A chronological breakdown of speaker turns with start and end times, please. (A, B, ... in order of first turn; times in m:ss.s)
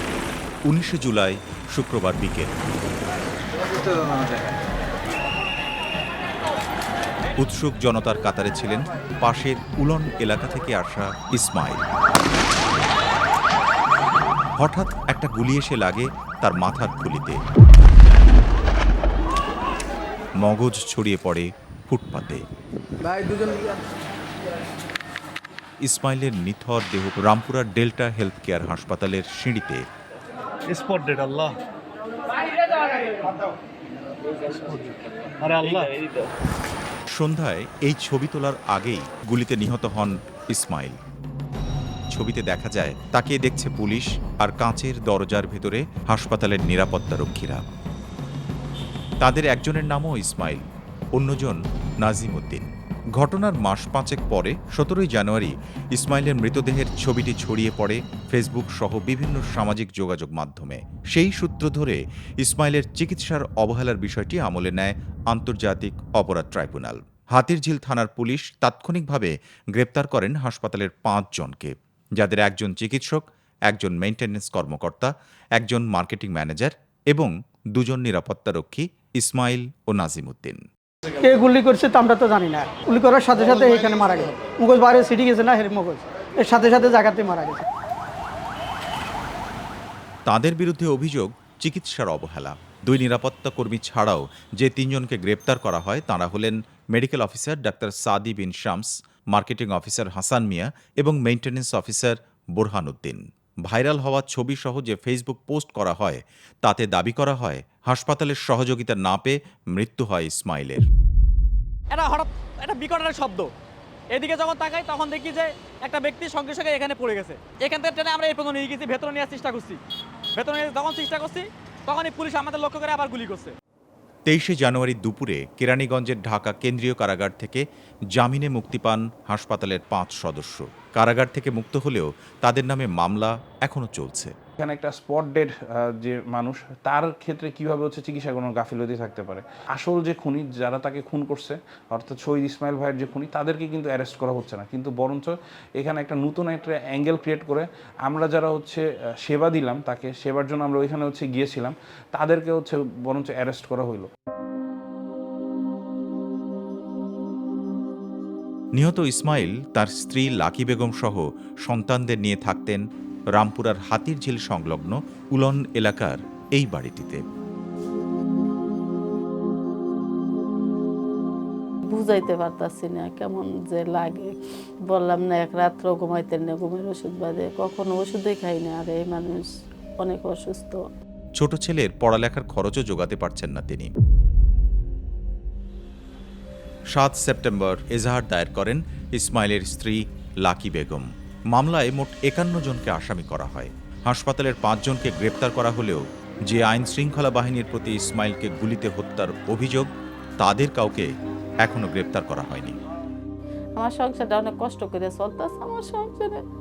0:00.6-0:02.5 A
0:07.4-0:11.8 A
0:14.6-0:17.4 A
0:20.4-0:22.4 A
0:23.2-0:23.5 B
0:25.8-0:29.8 A
0:30.7-0:31.6 C
0:34.4-0:36.1 C
0:37.1-0:41.0 A
0:42.1-0:47.6 A
0:49.2-1:20.6 A
1:21.2-1:27.6 B
1:30.3-1:50.9 A
1:51.9-1:53.5 D
1:54.1-1:59.8 D
2:00.3-2:03.5 D
2:04.2-2:14.3 A
2:14.6-2:34.1 E
2:38.8-2:42.8 A
2:43.3-2:47.2 A
2:51.9-2:54.3 F
2:54.9-2:59.5 F
3:00.0-3:00.8 F
3:01.4-3:03.9 A
3:06.9-3:22.8 A
3:23.8-3:26.4 F